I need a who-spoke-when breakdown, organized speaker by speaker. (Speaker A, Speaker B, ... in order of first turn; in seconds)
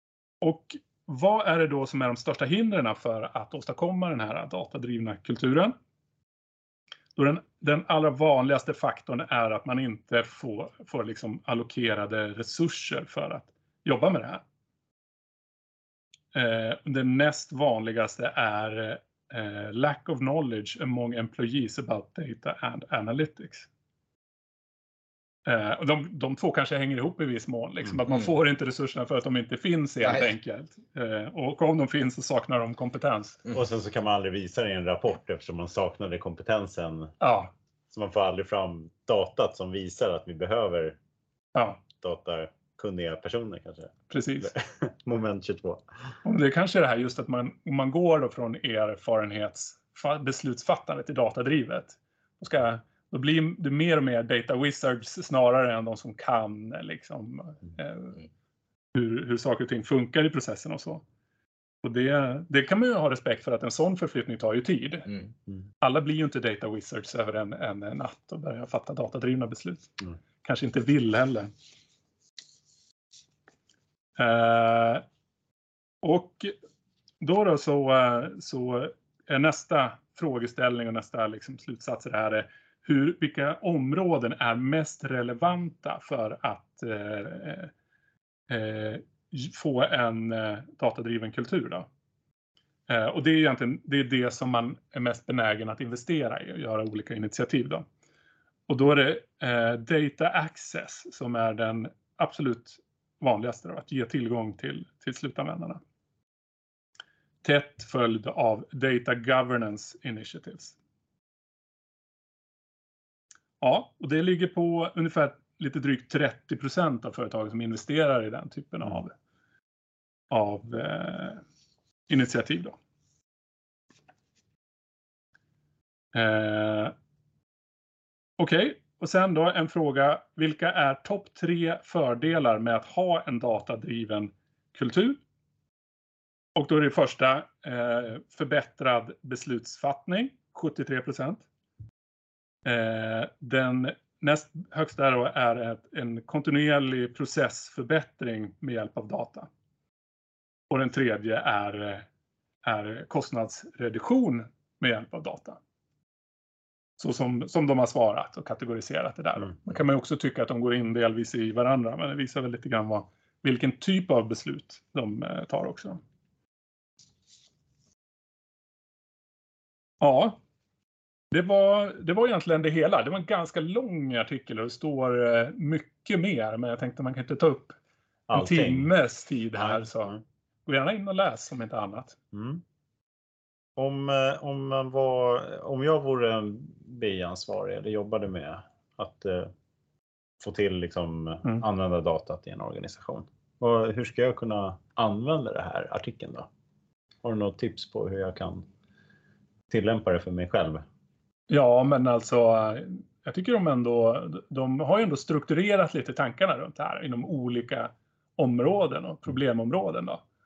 Speaker A: 0.4-5.8, 7.2-14.4, 16.3-23.7, 25.5-33.4, 37.2-37.5, 41.5-41.8, 44.1-44.5, 46.2-58.2, 58.9-61.0, 61.8-65.1, 65.8-71.5, 74.2-75.0, 76.0-76.5, 77.2-87.7, 88.5-91.9, 92.9-97.8, 98.7-105.8, 107.4-110.7, 113.6-119.1, 120.3-121.4, 122.1-122.8, 126.1-126.9, 128.4-135.2, 136.6-141.4, 142.7-149.5, 150.7-152.1, 152.6-155.6, 157.0-166.0, 170.0-170.4, 171.3-177.8, 178.3-182.2, 201.5-210.2
Speaker B: 33.5-37.1, 37.9-41.0, 41.8-45.8, 178.3-178.9, 179.6-180.1, 182.3-182.6, 183.8-189.5, 190.4-196.5, 197.2-198.7, 199.7-200.8